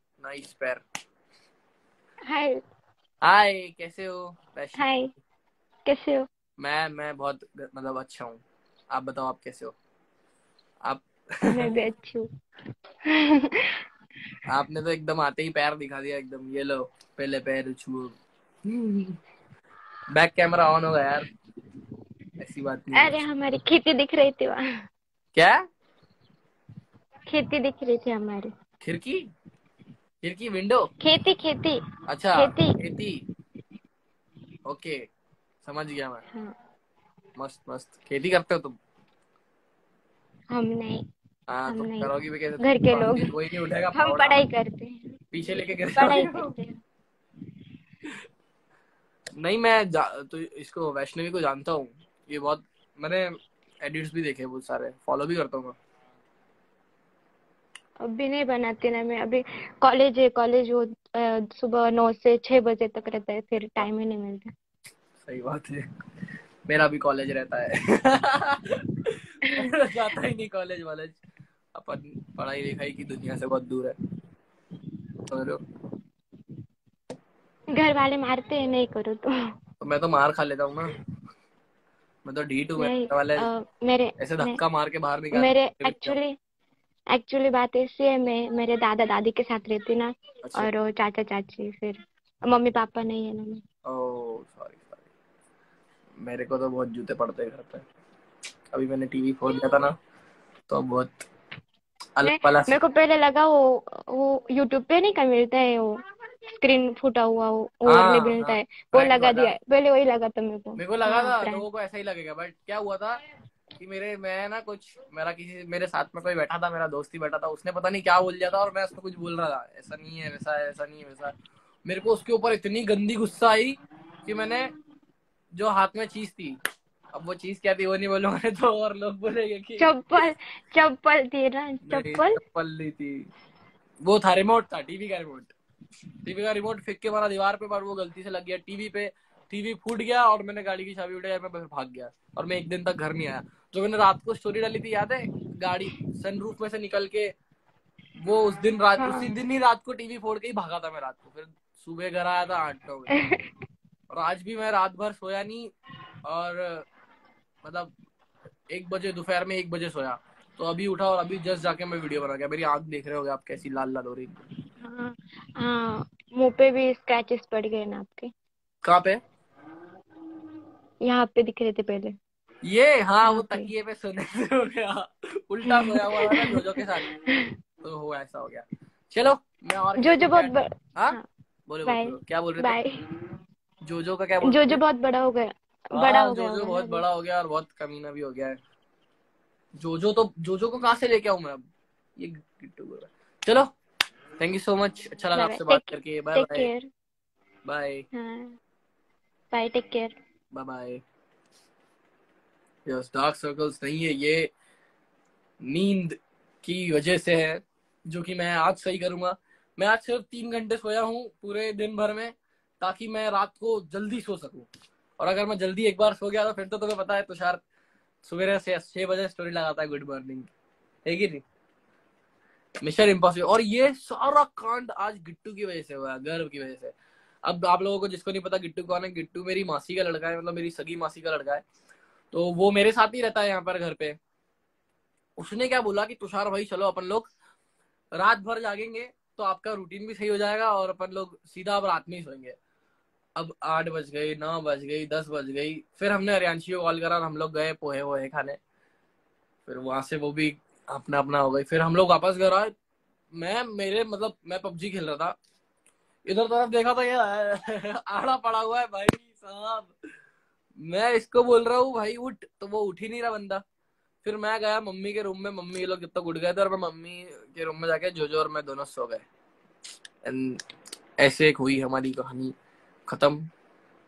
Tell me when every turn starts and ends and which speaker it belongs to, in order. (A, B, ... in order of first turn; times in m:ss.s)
0:00.2-0:00.8 A
0:02.3-0:02.6 B
0:03.2-0:04.8 A
0:04.8-0:05.1 B
0:05.8-0:06.3 B
0:06.6-0:09.8 A
0:10.8-0:11.7 A
0:11.4-0:12.2 B
0:13.1-0:13.7 B
0:14.5-0:18.1 A
0:18.7-0:19.2 A
0:20.1-0:21.3 A
0:22.4-0:23.2 A
0:22.9-0:24.6 B
0:25.3-0:25.6 A
0:27.3-0:28.5 B
0:28.8-0:29.2 A
0:30.2-0:30.9 A
0:31.0-0:31.8 B
0:32.1-0:33.2 A
0:32.4-0:32.8 B
0:34.7-0:35.0 A
0:35.6-0:36.2 A
0:37.4-0:38.8 A
0:40.5-0:41.0 B
0:41.5-0:44.4 A
0:41.7-0:43.4 B
0:43.9-0:45.1 B
0:45.3-0:46.5 A
0:45.7-0:46.8 B
0:49.4-0:53.3 A
0:53.8-0:55.8 A
0:58.0-1:04.5 B
1:05.2-1:05.8 A
1:06.7-1:11.2 A
1:11.8-1:13.9 A
1:15.3-1:15.6 A
1:17.7-1:19.3 B
1:19.8-1:21.0 A
1:22.2-1:23.5 A
1:22.8-1:24.6 B
1:24.2-1:26.2 A
1:25.3-1:26.3 B
1:27.1-1:33.6 B
1:30.4-1:30.7 A
1:33.9-1:35.1 A
1:36.2-1:37.9 A
1:38.7-1:39.9 A
1:40.7-1:41.3 A
1:42.2-1:42.8 A
1:42.2-1:45.9 B
1:46.6-1:51.6 B
1:47.9-1:49.5 A
1:50.8-1:53.2 A
1:53.8-2:01.3 A
2:01.9-2:04.7 A
2:05.6-2:06.6 A
2:07.1-2:10.3 A
2:09.8-2:12.4 B
2:11.9-2:13.3 A
2:14.0-2:15.5 A
2:16.2-2:27.3 A
2:28.2-2:33.2 A
2:29.0-2:29.3 B
2:33.1-2:33.5 B
2:34.1-2:35.7 A
2:36.2-2:36.8 A
2:37.6-2:37.9 A
2:38.7-2:44.4 A
2:44.8-2:48.3 B
2:48.8-2:49.2 A
2:51.0-2:52.1 B
2:52.6-2:57.1 A
2:53.2-2:53.7 B
2:55.6-2:57.5 B
2:57.8-3:01.2 A
3:00.0-3:01.2 B
3:01.7-3:02.8 A
3:01.8-3:02.9 B
3:03.8-3:04.8 A
3:04.4-3:07.0 B
3:05.9-3:08.6 A
3:09.8-3:11.6 A
3:12.2-3:13.7 A
3:14.4-3:16.7 A
3:15.4-3:16.9 B
3:17.6-3:18.0 A
3:18.1-3:18.6 B
3:19.5-3:20.1 B
3:20.5-3:21.0 A
3:22.9-3:24.5 A
3:25.6-3:37.6 A
3:38.2-3:40.5 A
3:41.0-3:41.4 A
3:42.8-3:46.9 A
3:47.5-3:51.6 A
3:52.3-3:54.2 A
3:55.4-3:57.3 A
3:58.1-4:02.6 A
4:03.4-4:08.6 A
4:09.6-4:12.7 A
4:13.3-4:15.4 A
4:16.3-4:19.9 A
4:20.8-4:23.6 A
4:24.2-4:29.2 A
4:30.2-4:30.6 A
4:31.2-4:32.6 A
4:33.1-4:33.5 A